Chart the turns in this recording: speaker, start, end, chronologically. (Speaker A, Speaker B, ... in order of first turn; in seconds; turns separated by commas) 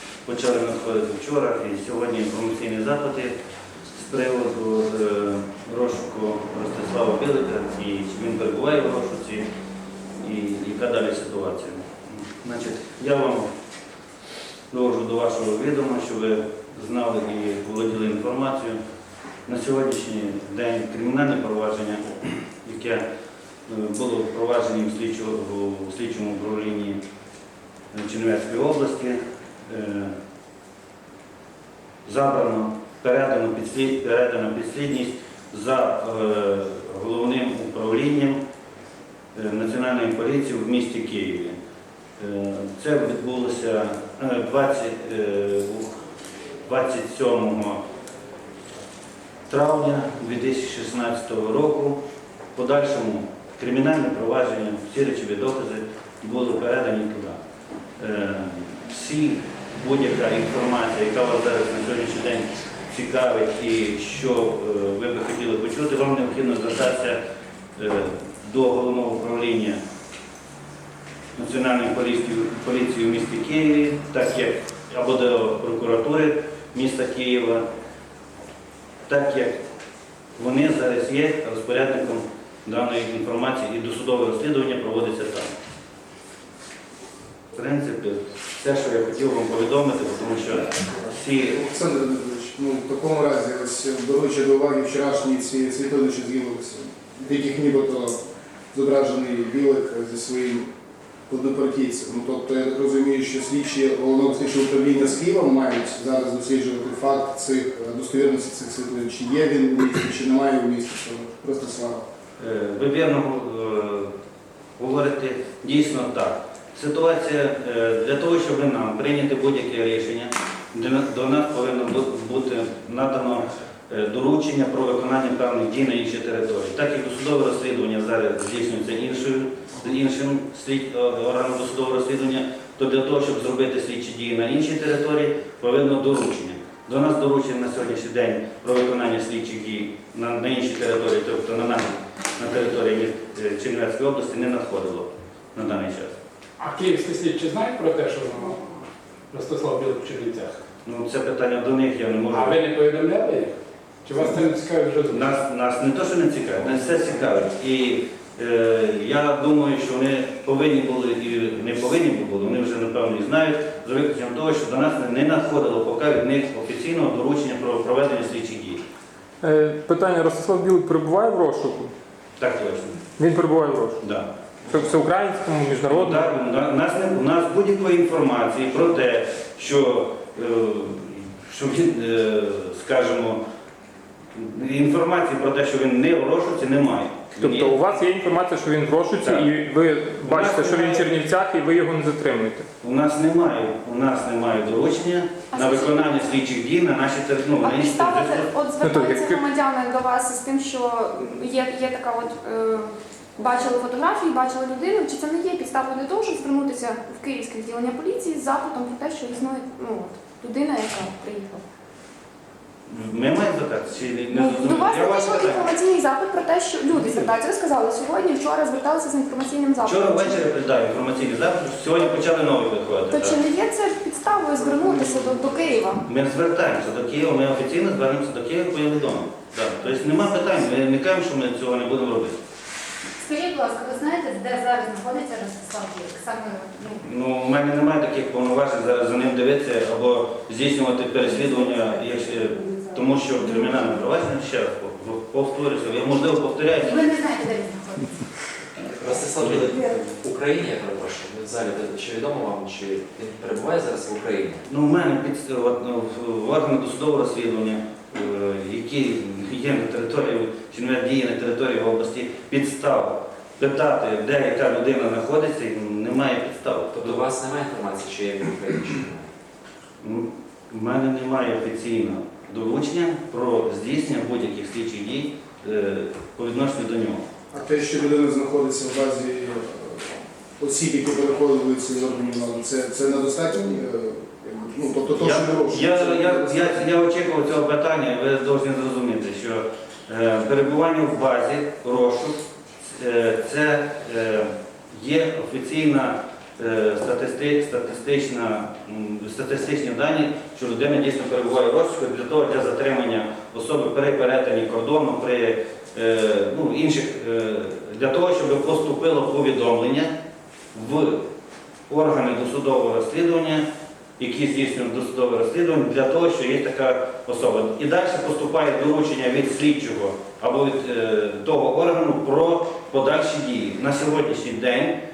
Speaker A: 0.2-3.3, Speaker A: 3.9-9.4, Speaker A: 10.2-13.5, Speaker A: 14.7-18.8, Speaker A: 19.5-23.0, Speaker A: 23.7-27.0, Speaker A: 27.9-30.1, Speaker A: 32.0-38.4, Speaker A: 39.3-41.5, Speaker A: 42.2-45.9, Speaker A: 46.6-47.8, Speaker A: 49.5-52.0, Speaker A: 52.5-57.4, Speaker A: 58.0-67.2, Speaker A: 67.8-69.8, Speaker A: 71.3-77.6, Speaker A: 79.1-79.6, Speaker A: 80.4-85.5, Speaker A: 87.5-91.6, Speaker B: 91.5-98.2, Speaker B: 98.7-100.7, Speaker B: 101.3-112.0, Speaker A: 112.4-114.1, Speaker A: 114.8-146.2, Speaker C: 146.6-150.6, Speaker A: 150.8-152.6, Speaker C: 152.3-153.5, Speaker C: 154.0-155.2, Speaker A: 155.1-168.8, Speaker D: 169.4-171.9, Speaker A: 172.4-173.0, Speaker D: 173.2-174.0, Speaker A: 174.0-174.3, Speaker D: 174.7-176.3, Speaker A: 175.8-183.4, Speaker A: 184.3-188.0, Speaker D: 187.4-192.7, Speaker A: 189.2-189.5, Speaker A: 190.2-191.1, Speaker A: 192.8-198.5, Speaker E: 195.5-195.9, Speaker E: 197.6-211.6, Speaker D: 198.8-199.4, Speaker A: 212.9-215.7, Speaker E: 214.3-220.4, Speaker A: 219.8-223.4, Speaker E: 223.1-226.0, Speaker B: 224.6-225.8, Speaker A: 226.0-232.4, Speaker F: 233.2-237.0, Speaker A: 237.0-247.1, Speaker F: 246.8-248.2, Speaker G: 248.8-254.6, Speaker A: 249.4-249.7, Speaker A: 254.7-267.2, Speaker G: 266.9-269.3, Speaker A: 270.0-277.2, Speaker B: 277.5-286.8, Speaker A: 285.2-310.1, Speaker A: 310.7-311.2, Speaker A: 311.9-313.6, Speaker A: 314.2-324.9